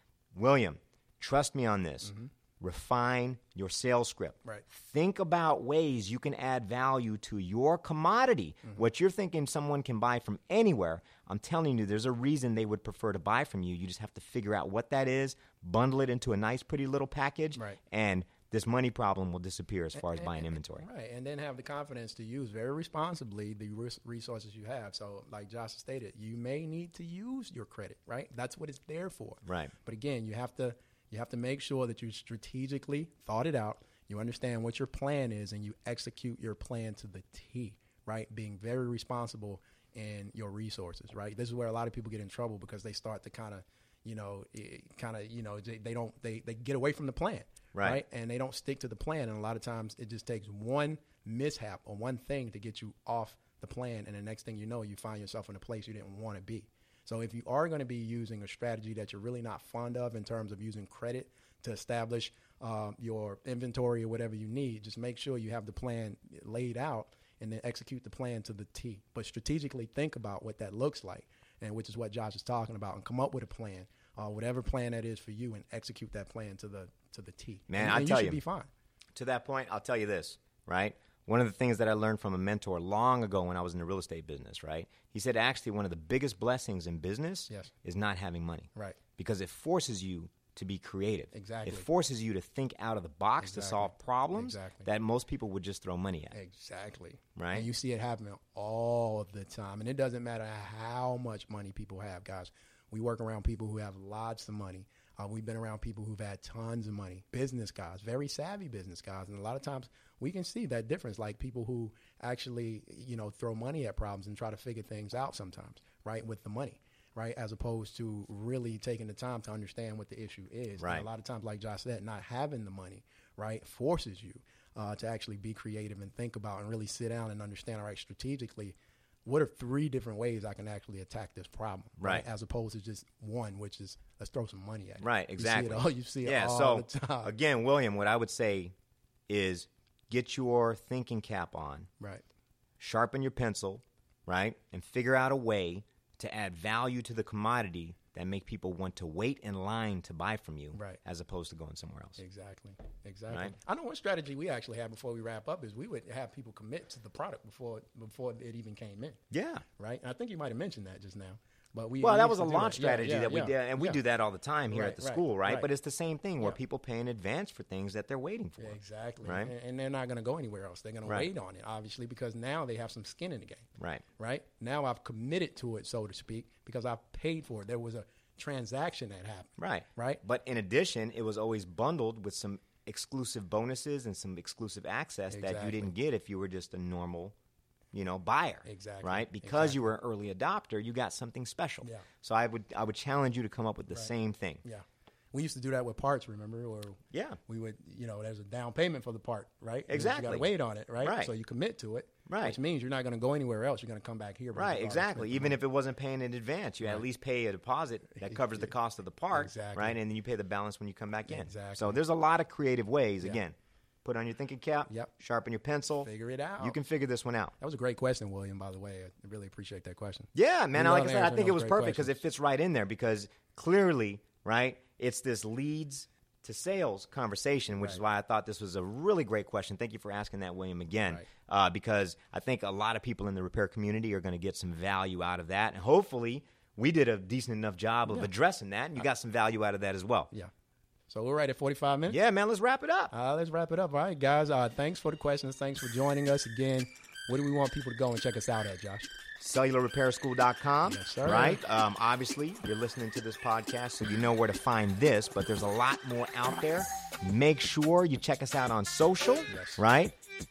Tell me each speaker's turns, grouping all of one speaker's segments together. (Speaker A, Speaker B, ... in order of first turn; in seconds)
Speaker A: 0.3-20.8, 29.4-29.7, 47.7-48.0, 77.7-78.4, 79.1-96.3, 97.3-97.7, 120.8-121.1, 132.0-132.2, 135.0-138.7, 139.3-141.9, 142.8-152.2, 159.3-159.6, 162.0-169.5, 173.8-174.0, 179.6-187.3, 187.9-194.6, 197.1-197.4, 199.9-200.5, 201.0-201.3, 202.3-202.6, 204.5-217.5, 220.3-240.3, 242.1-243.1, 249.4-260.1
Speaker B: 2.0-2.3, 17.5-17.8, 19.9-78.7, 88.7-89.0, 91.3-91.9, 93.4-94.9, 96.3-137.3, 150.7-151.0, 152.2-159.2, 159.8-164.0, 164.7-165.7, 168.6-180.2, 185.3-185.9, 188.6-189.9, 194.6-205.6, 208.1-208.7, 209.3-210.0, 211.2-212.0, 216.0-216.8, 217.6-222.2, 241.1-242.2, 243.1-249.1, 250.8-251.6, 259.5-259.8